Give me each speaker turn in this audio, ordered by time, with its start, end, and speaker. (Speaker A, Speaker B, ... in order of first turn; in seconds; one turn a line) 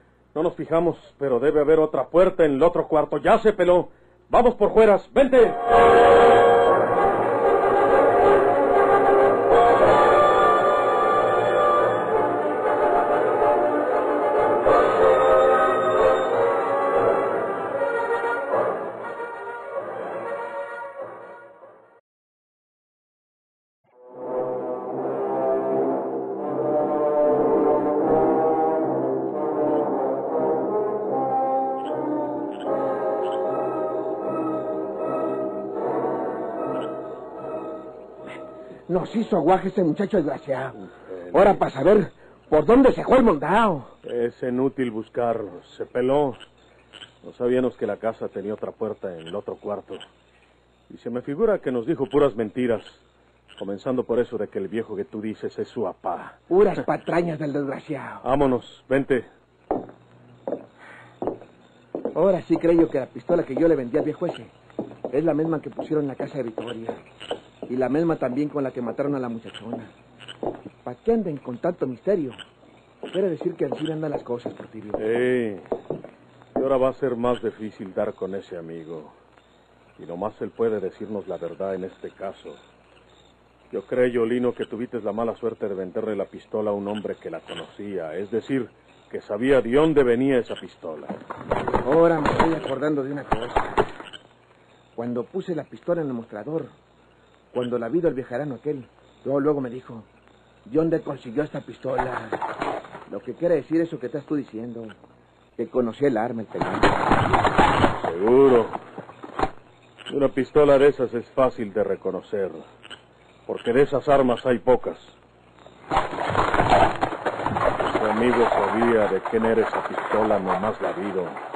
Speaker A: 0.3-5.6
Speaker B: 38.9-40.8
Speaker A: 40.8-41.7
Speaker B: 41.3-43.9
Speaker A: 44.0-46.4
Speaker A: 47.2-50.0
Speaker A: 50.9-53.0
Speaker A: 53.6-56.4
Speaker B: 56.5-58.2
Speaker A: 58.2-59.3
Speaker B: 62.1-64.5
Speaker B: 65.1-67.0
Speaker B: 67.7-69.9
Speaker B: 70.8-72.4
Speaker B: 73.1-75.0
Speaker A: 75.0-75.6
Speaker A: 76.5-79.1
Speaker A: 80.0-82.6
Speaker A: 83.7-91.2
Speaker B: 91.8-93.8
Speaker B: 95.0-96.7
Speaker B: 97.5-100.1
Speaker B: 100.7-102.4
Speaker B: 103.1-105.0
Speaker B: 105.6-107.2
Speaker A: 108.0-108.8
Speaker A: 110.1-112.6
Speaker A: 113.5-115.2
Speaker A: 117.8-121.4